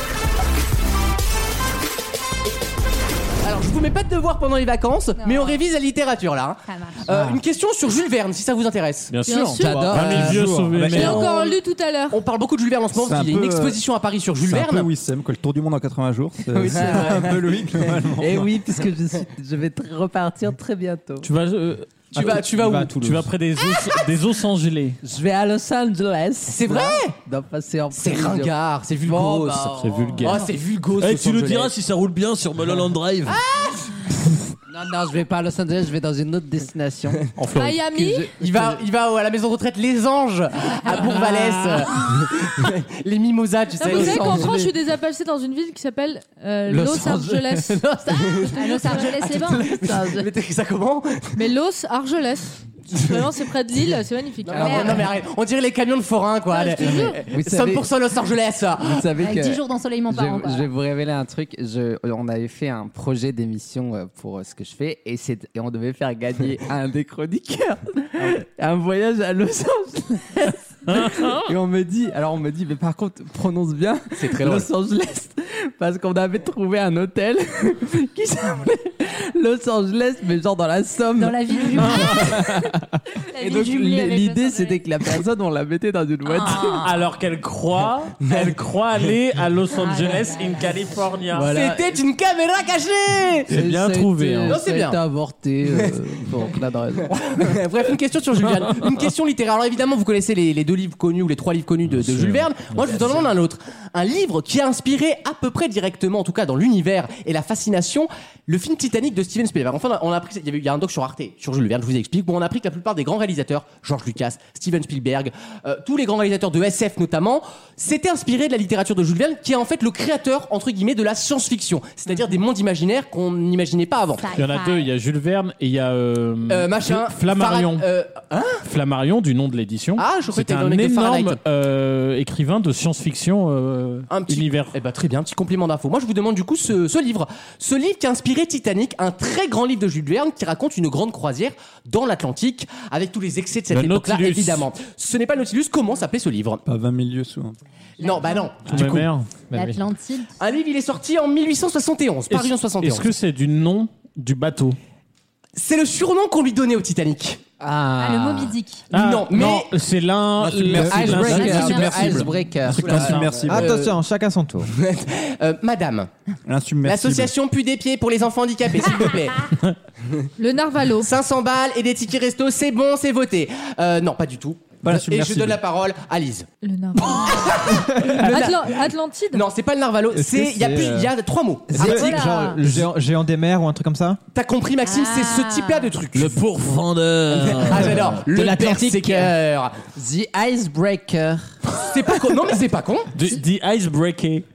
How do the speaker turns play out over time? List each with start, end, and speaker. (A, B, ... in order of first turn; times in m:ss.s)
0:03.4-0:09.1 A
0:05.2-0:05.6 B
0:06.6-0:07.0 B
0:07.1-0:07.4 C
0:09.1-0:11.2 D
0:09.2-0:09.9 E
0:09.6-0:10.4 F
0:09.6-0:10.8 C
0:10.7-0:11.3 G
0:11.0-0:12.2 E
0:11.0-0:11.5 A
0:12.1-0:14.9 A
0:12.9-0:13.8 G
0:14.4-0:18.5 G
0:16.5-0:17.5 F
0:16.8-0:17.2 A
0:18.1-0:21.3 F
0:21.2-0:25.0 D
0:22.1-0:23.3 C
0:22.1-0:23.0 A
0:25.0-0:30.5 F
0:26.5-0:27.1 A
0:27.9-0:31.7 A
0:29.8-0:33.4 D
0:33.3-0:34.1 A
0:34.7-0:37.3 F
0:37.4-0:37.8 D
0:37.6-0:38.3 E
0:37.9-0:38.8 F
0:38.4-0:44.6 A
0:40.9-0:41.2 B
0:40.9-0:41.9 D
0:43.8-0:47.8 E
0:43.8-0:44.1 B
0:44.0-0:44.7 F
0:46.7-0:50.3 F
0:48.1-0:51.4 A
0:48.5-0:49.6 B
0:51.4-0:55.0 E
0:54.4-0:59.0 A
0:54.5-0:55.0 B
0:56.5-0:57.2 E
0:57.2-0:57.9 F
0:58.8-1:22.8 F
0:59.2-1:00.7 B
1:10.9-1:11.5 D
1:14.1-1:14.7 A
1:21.2-1:22.3 B
1:21.9-1:22.2 D
1:23.3-1:24.8 B
1:23.4-1:26.9 F
1:26.3-1:26.9 B
1:26.5-1:31.6 D
1:28.2-1:28.6 A
1:29.8-1:30.7 B
1:31.3-1:32.0 F
1:31.4-1:33.5 A
1:33.5-1:37.6 F
1:33.5-1:34.6 D
1:34.5-1:35.0 A
1:37.1-2:04.2 A
1:41.9-1:43.2 D
2:04.2-2:04.9 B
2:04.3-2:07.8 D
2:06.5-2:08.6 A
2:08.6-2:14.7 D
2:10.0-2:11.4 A
2:14.1-2:26.6 A
2:23.7-2:24.7 D
2:26.6-2:27.6 G
2:28.0-2:28.9 A
2:28.0-2:28.5 B
2:28.7-2:29.3 D
2:29.5-2:29.8 C
2:29.5-2:30.3 B
2:30.4-2:33.1 A
2:32.3-2:34.8 D
2:35.6-2:37.4 A
2:37.6-2:38.6 F
2:38.0-2:38.8 B
2:38.9-2:39.7 A
2:38.9-2:42.1 D
2:40.4-2:43.7 G
2:40.8-2:41.7 C
2:40.8-2:43.3 F
2:41.5-2:41.8 B
2:42.7-2:43.5 D
2:43.0-2:43.9 A
2:43.5-2:44.7 C
2:44.7-2:46.1 A
2:46.4-2:47.3 G
2:46.8-2:49.5 A
2:50.4-2:51.1 E
2:51.0-2:56.5 A
2:54.8-2:55.6 G
2:56.6-2:57.6 E
2:57.1-3:02.8 A
2:57.7-2:58.5 C
2:58.3-2:59.4 E
3:00.1-3:01.1 C
3:01.7-3:04.2 C
3:01.7-3:02.6 B
3:04.3-3:06.4 A
3:04.8-3:05.9 B
3:06.1-3:08.2 D
3:07.4-3:09.8 A
3:08.0-3:09.4 F
3:10.0-3:11.6 F
3:11.8-3:13.1 A
3:13.1-3:14.4 D